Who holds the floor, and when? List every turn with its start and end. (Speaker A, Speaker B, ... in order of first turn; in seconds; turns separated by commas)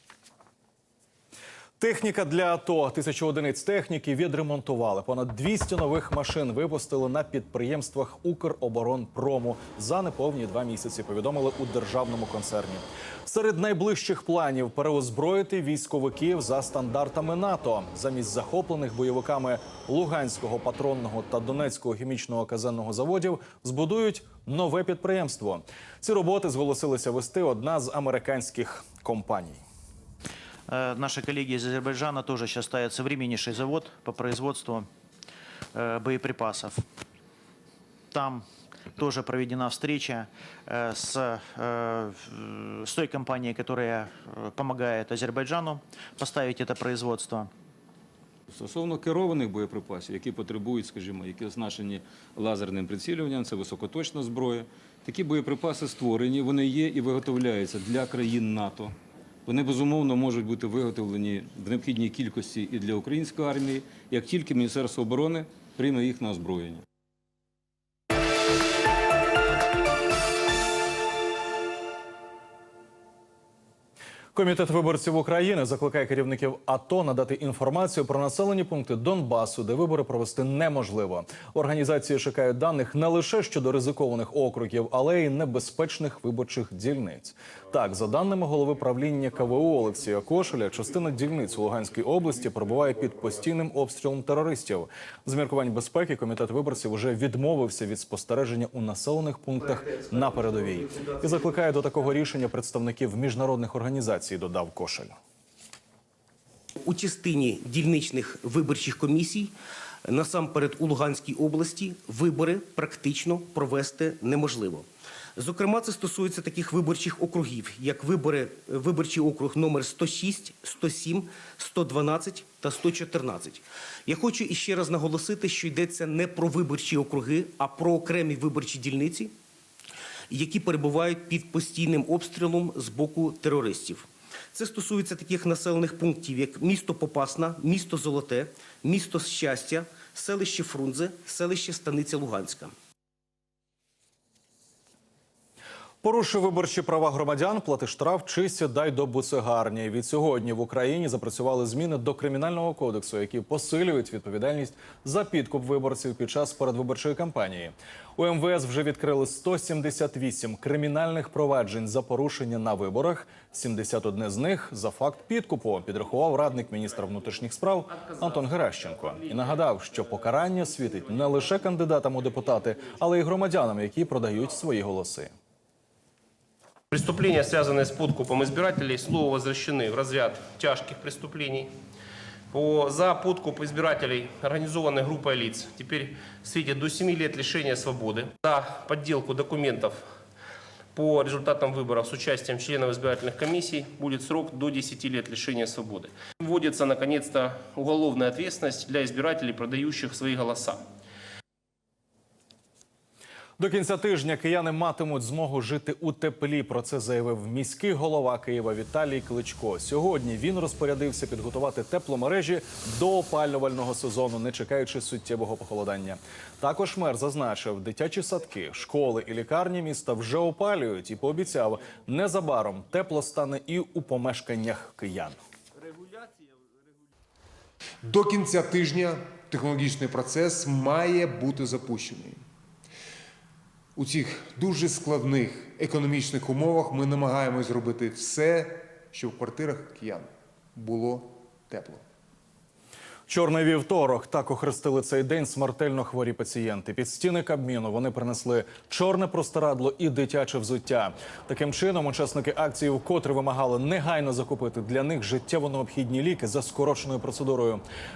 Speaker A: 1.8-29.6, Speaker B: 30.7-34.9, Speaker B: 35.7-36.8, Speaker B: 38.1-38.5, Speaker B: 39.0-47.5, Speaker C: 48.5-58.9, Speaker C: 59.5-66.8, Speaker A: 74.3-105.1, Speaker D: 106.8-109.5, Speaker D: 110.0-129.3, Speaker D: 130.3-142.7, Speaker A: 146.0-175.3, Speaker E: 176.9-181.7, Speaker E: 182.5-190.0, Speaker E: 190.9-200.8, Speaker A: 203.6-225.4, Speaker F: 228.0-232.4, Speaker F: 233.9-242.0, Speaker A: 243.3-257.8